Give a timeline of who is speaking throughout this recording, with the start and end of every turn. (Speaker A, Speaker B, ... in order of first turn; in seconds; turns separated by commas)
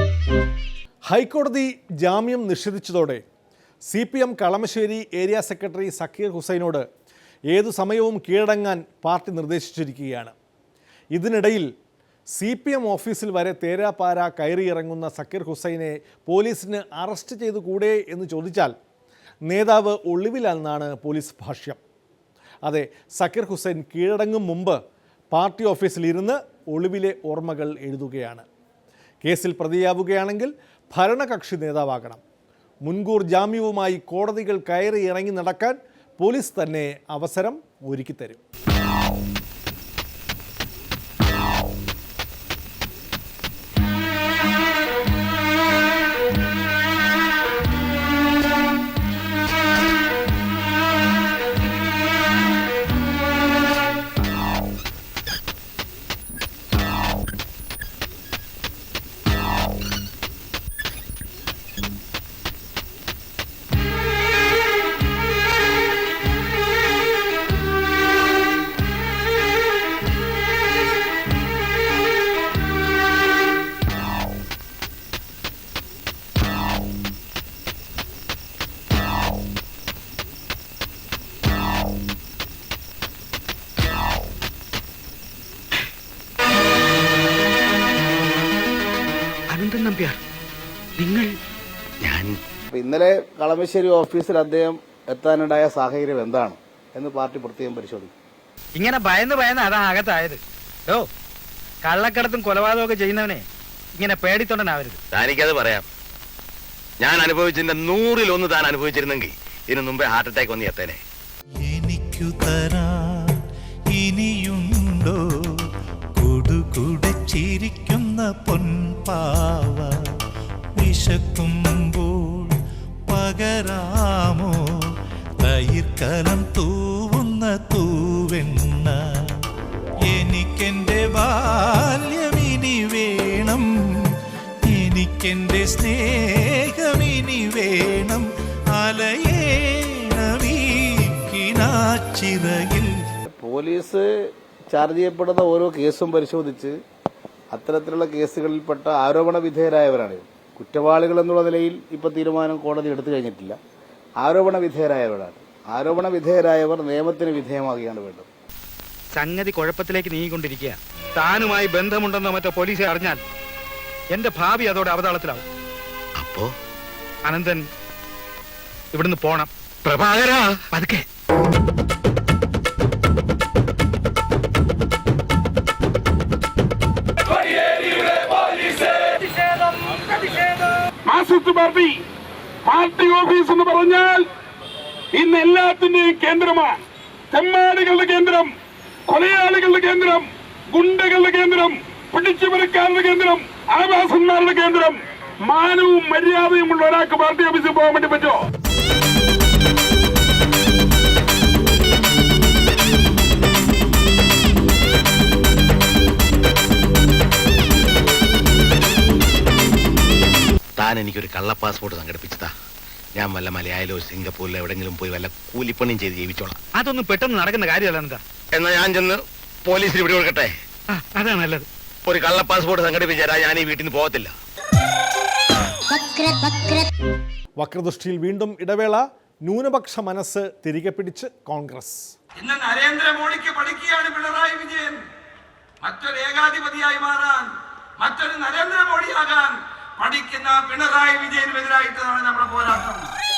Speaker A: 1.1-3.2, Speaker A: 3.9-6.8, Speaker A: 7.5-10.3, Speaker A: 11.1-11.7, Speaker A: 12.3-18.7, Speaker A: 19.5-21.8, Speaker A: 22.6-24.8, Speaker A: 25.3-28.4, Speaker A: 29.2-32.2, Speaker A: 32.8-38.4, Speaker B: 89.5-90.2, Speaker B: 91.0-91.4, Speaker C: 92.0-92.4, Speaker D: 92.7-98.1, Speaker B: 98.7-101.0, Speaker B: 101.8-105.0, Speaker C: 105.1-105.8, Speaker C: 107.0-111.0, Speaker E: 111.6-113.4, Speaker E: 113.9-115.2, Speaker E: 116.1-119.9, Speaker E: 120.8-124.5, Speaker E: 125.4-129.0, Speaker E: 130.1-133.7, Speaker E: 134.7-142.9, Speaker D: 143.2-144.0, Speaker D: 144.7-146.7, Speaker D: 147.5-153.6, Speaker D: 154.2-158.3, Speaker B: 159.1-163.2, Speaker B: 164.1-165.4, Speaker C: 166.2-166.5, Speaker B: 167.2-167.6, Speaker B: 168.9-169.5, Speaker C: 169.8-170.6, Speaker B: 170.7-171.1, Speaker F: 181.1-182.0, Speaker F: 182.6-184.3, Speaker F: 185.1-188.5, Speaker F: 189.1-198.4, Speaker C: 210.8-212.5, Speaker C: 213.2-216.6, Speaker B: 216.7-218.2, Speaker C: 218.5-220.5, Speaker B: 220.9-221.7, Speaker C: 222.1-224.3, Speaker B: 225.9-226.9, Speaker A: 227.6-232.2, Speaker G: 232.4-235.0, Speaker G: 235.9-243.1